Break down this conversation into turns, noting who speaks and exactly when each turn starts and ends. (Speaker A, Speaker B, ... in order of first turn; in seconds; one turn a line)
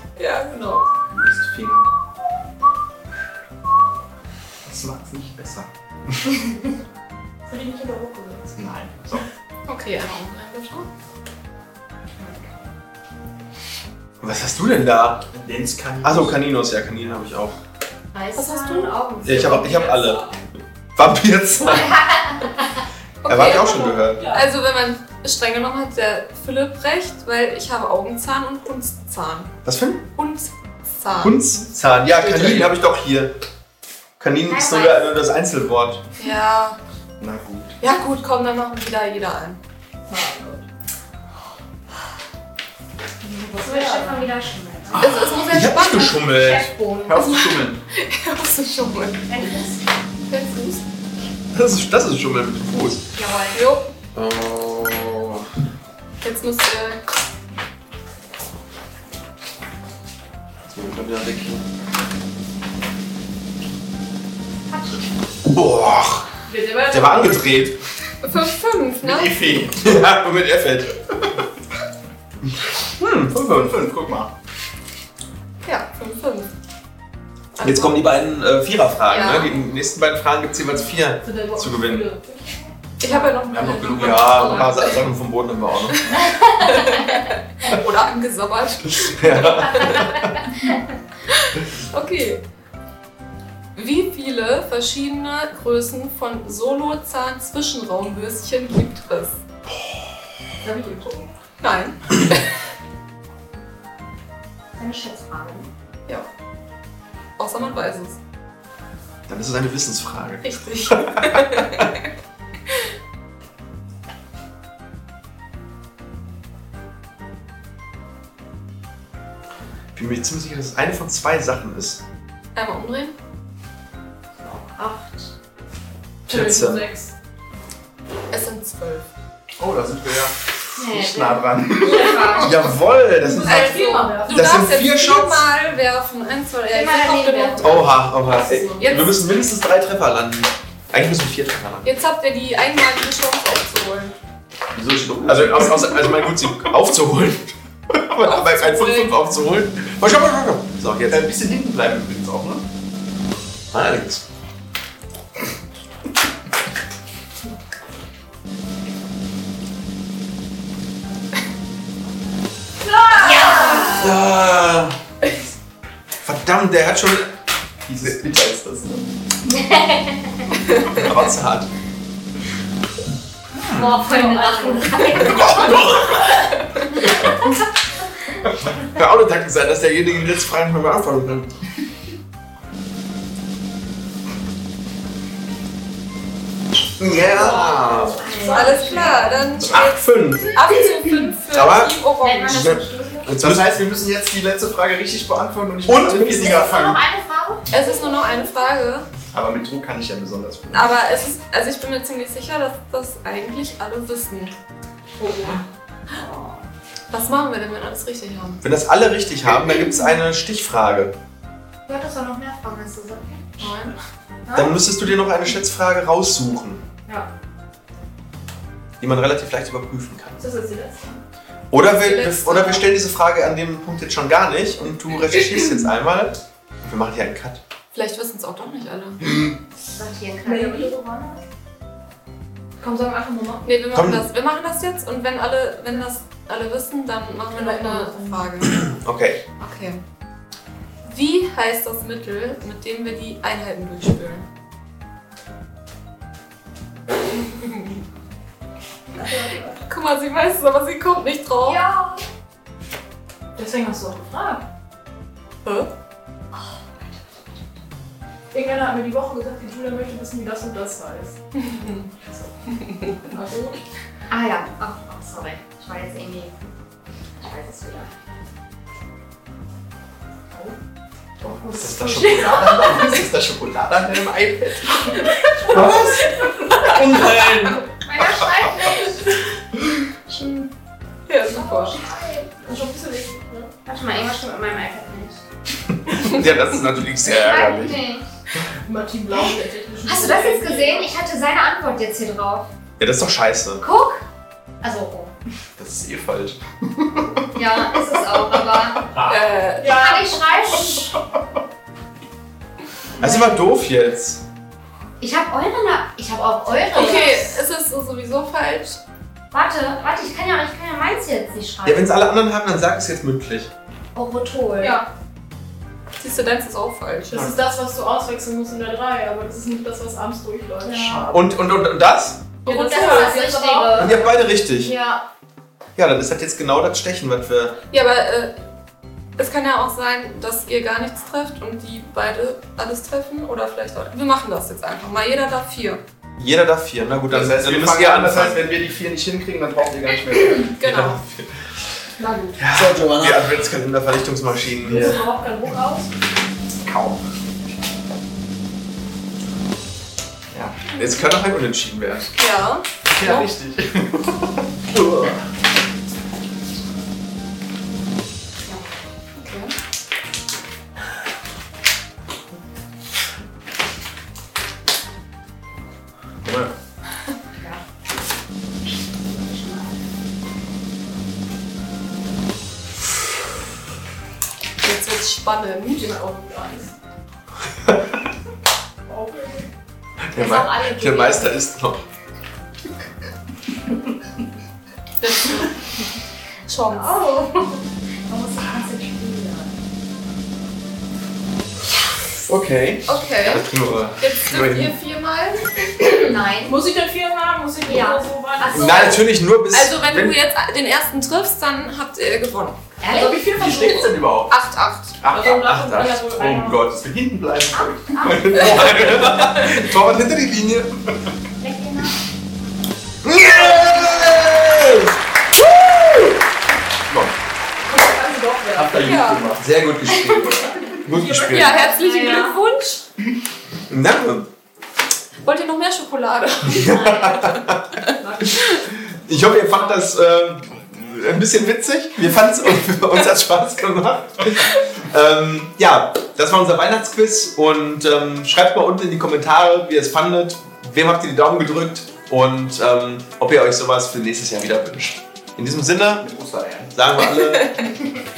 Speaker A: 0.2-0.9
Speaker B: 1.1-1.9
Speaker B: 4.6-5.7
Speaker C: 7.5-8.5
Speaker B: 8.6-9.2
Speaker A: 9.7-10.9
Speaker D: 12.2-12.5
Speaker E: 14.2-15.3
Speaker B: 15.3-16.4
Speaker E: 16.0-17.6
Speaker D: 18.1-20.2
Speaker C: 18.4-18.9
Speaker E: 19.2-20.3
Speaker C: 19.7-20.3
Speaker E: 21.0-22.0
Speaker D: 21.6-22.8
Speaker A: 23.2-29.5
Speaker E: 23.3-24.2
Speaker C: 23.6-24.5
Speaker E: 29.6-30.0
Speaker A: 30.1-31.4
Speaker E: 31.2-33.4
Speaker B: 32.1-32.8
Speaker E: 34.2-36.0
Speaker D: 34.5-35.1
Speaker A: 36.2-36.8
Speaker B: 37.2-37.8
Speaker A: 37.8-39.6
Speaker C: 40.1-40.6
Speaker C: 43.2-44.3
Speaker D: 43.6-45.2
Speaker B: 44.9-45.3
Speaker A: 45.0-46.3
Speaker E: 45.5-46.7
Speaker D: 46.3-47.3
Speaker B: 47.0-47.8
Speaker A: 47.1-49.3
Speaker D: 49.3-49.8
Speaker A: 50.2-50.8
Speaker E: 51.5-53.0
Speaker D: 53.1-53.6
Speaker A: 53.5-53.9
Speaker E: 54.1-55.5
Speaker A: 56.2-57.0
Speaker E: 60.7-61.6
Speaker D: 64.7-65.0
Speaker E: 65.5-66.3
Speaker C: 66.5-67.5
Speaker E: 66.9-67.8
Speaker A: 68.2-69.3
Speaker B: 69.0-70.0
Speaker E: 69.8-71.0
Speaker E: 73.0-73.8
Speaker B: 73.3-74.3
Speaker A: 75.6-76.5
Speaker A: 77.6-78.1
Speaker E: 77.6-82.1
Speaker A: 79.1-79.6
Speaker C: 81.2-82.7
Speaker A: 83.0-85.0
Speaker B: 83.5-84.7
Speaker E: 83.8-86.1
Speaker A: 86.6-90.2
Speaker E: 89.0-90.3
Speaker A: 91.3-92.4
Speaker A: 93.8-99.4
Speaker C: 100.6-101.3
Speaker A: 101.6-102.5
Speaker D: 104.8-105.7
Speaker A: 107.4-108.2
Speaker E: 109.3-111.9
Speaker A: 110.4-112.0
Speaker E: 120.0-122.0
Speaker A: 122.5-123.2
Speaker D: 124.4-125.3
Speaker C: 126.3-127.1
Speaker E: 126.3-126.9
Speaker A: 128.3-129.1
Speaker B: 129.6-132.2
Speaker D: 130.8-132.8
Speaker E: 132.4-135.5
Speaker C: 133.2-134.6
Speaker A: 133.4-138.1
Speaker D: 136.7-137.8
Speaker E: 137.6-141.9
Speaker C: 138.2-139.2
Speaker A: 138.8-139.2
Speaker A: 141.8-144.2
Speaker B: 144.7-146.3
Speaker E: 145.2-151.3
Speaker A: 148.2-149.2
Speaker B: 151.1-152.6
Speaker E: 153.7-154.2
Speaker C: 162.8-164.0
Speaker D: 163.1-164.2
Speaker A: 163.3-163.8
Speaker E: 163.9-165.0
Speaker E: 166.2-167.3
Speaker B: 167.9-169.2
Speaker D: 169.5-170.5
Speaker E: 170.9-171.7
Speaker E: 173.5-174.1
Speaker D: 173.7-175.9
Speaker C: 174.0-175.3
Speaker E: 175.1-176.5
Speaker A: 176.1-176.9
Speaker D: 177.0-177.5
Speaker E: 178.8-181.5
Speaker E: 187.0-188.2
Speaker C: 187.1-189.7
Speaker D: 187.5-189.4
Speaker A: 188.5-192.7
Speaker E: 189.7-190.7
Speaker E: 191.5-193.8
Speaker D: 192.2-193.4
Speaker B: 193.4-197.0
Speaker E: 195.9-196.7
Speaker D: 196.2-198.2
Speaker A: 197.7-199.1
Speaker B: 199.3-200.9
Speaker A: 200.7-204.5
Speaker C: 205.2-205.6
Speaker D: 206.1-206.6
Speaker A: 207.1-208.6
Speaker E: 208.6-211.1
Speaker D: 211.9-213.6
Speaker A: 213.6-213.9
Speaker E: 214.5-216.8
Speaker E: 219.0-220.4
Speaker C: 220.4-221.2
Speaker E: 221.7-227.6
Speaker A: 222.0-222.9
Speaker A: 227.9-229.2
Speaker D: 229.9-231.4
Speaker C: 230.4-231.0
Speaker C: 232.8-233.7
Speaker A: 233.6-238.9
Speaker E: 233.9-234.3
Speaker C: 237.6-238.5
Speaker E: 238.7-239.4
Speaker A: 239.6-240.0
Speaker A: 241.1-244.4
Speaker A: 247.5-248.0
Speaker C: 249.2-249.8
Speaker A: 249.9-251.8
Speaker D: 251.6-252.3
Speaker C: 253.6-254.6
Speaker C: 258.5-261.4
Speaker C: 262.1-262.5
Speaker A: 262.9-263.1
Speaker C: 263.2-263.8
Speaker D: 264.3-266.7
Speaker D: 267.4-268.1
Speaker C: 271.4-273.2
Speaker B: 271.8-275.6
Speaker A: 275.4-277.3
Speaker C: 275.5-276.5
Speaker E: 275.6-277.9
Speaker D: 277.9-279.3
Speaker A: 281.3-282.0
Speaker D: 281.5-282.6
Speaker C: 282.6-283.7
Speaker D: 283.9-285.4
Speaker E: 286.2-288.0
Speaker D: 287.2-288.2
Speaker C: 288.9-291.1
Speaker D: 290.1-292.7
Speaker E: 293.0-293.8
Speaker D: 293.8-294.2
Speaker D: 294.8-295.3
Speaker B: 295.8-297.5
Speaker D: 297.6-301.2
Speaker A: 299.2-300.3
Speaker C: 299.8-301.0
Speaker D: 303.2-303.7
Speaker E: 303.2-304.4
Speaker D: 305.2-307.6
Speaker A: 306.9-309.0
Speaker D: 309.5-312.1
Speaker E: 311.8-313.7
Speaker D: 314.1-315.0
Speaker C: 314.8-315.1
Speaker A: 316.2-317.5
Speaker C: 317.3-321.3
Speaker D: 320.9-321.4
Speaker E: 321.3-322.5
Speaker A: 322.6-323.4
Speaker C: 322.7-324.2
Speaker D: 322.7-325.2
Speaker E: 324.0-324.9
Speaker E: 326.0-327.8
Speaker A: 327.9-328.6
Speaker A: 329.4-336.0
Speaker E: 336.4-338.7
Speaker B: 337.3-340.8
Speaker A: 340.8-341.2
Speaker E: 340.8-341.5
Speaker C: 342.2-342.6
Speaker E: 342.6-345.2
Speaker B: 342.7-343.5
Speaker C: 344.8-346.1
Speaker B: 346.8-347.2
Speaker B: 350.5-350.8
Speaker A: 350.9-351.2
Speaker E: 350.9-352.3
Speaker A: 352.4-353.5
Speaker B: 353.1-355.4
Speaker D: 358.6-358.9
Speaker A: 359.4-359.7
Speaker B: 366.4-366.7
Speaker D: 369.3-369.9
Speaker A: 374.8-376.1
Speaker C: 375.9-376.9
Speaker C: 379.1-379.7
Speaker E: 380.3-382.1
Speaker D: 380.4-381.6
Speaker A: 385.2-385.7
Speaker A: 386.7-387.2
Speaker D: 386.9-389.8
Speaker E: 392.4-394.9
Speaker A: 393.1-396.3
Speaker D: 396.0-396.8
Speaker C: 396.6-399.1
Speaker D: 397.9-399.3
Speaker E: 398.7-400.4
Speaker A: 399.7-402.8
Speaker D: 403.0-403.6
Speaker C: 403.1-404.1
Speaker B: 403.4-404.6
Speaker A: 404.5-405.7
Speaker B: 405.2-408.9
Speaker C: 405.4-406.9
Speaker E: 405.5-406.1
Speaker D: 407.7-409.3
Speaker E: 408.2-410.9
Speaker A: 408.5-409.8
Speaker D: 411.6-412.2
Speaker E: 413.2-416.4
Speaker B: 417.1-417.3
Speaker C: 417.9-419.1
Speaker B: 418.7-419.7
Speaker A: 419.0-419.5
Speaker E: 419.6-421.8
Speaker D: 420.1-420.6
Speaker C: 421.1-422.3
Speaker A: 421.5-423.0
Speaker D: 421.8-422.6
Speaker E: 423.9-424.5
Speaker A: 425.4-428.9
Speaker E: 426.6-428.0
Speaker C: 428.2-428.6
Speaker E: 428.6-446.3
Speaker B: 446.2-446.9
Speaker E: 446.9-447.9
Speaker A: 447.6-447.9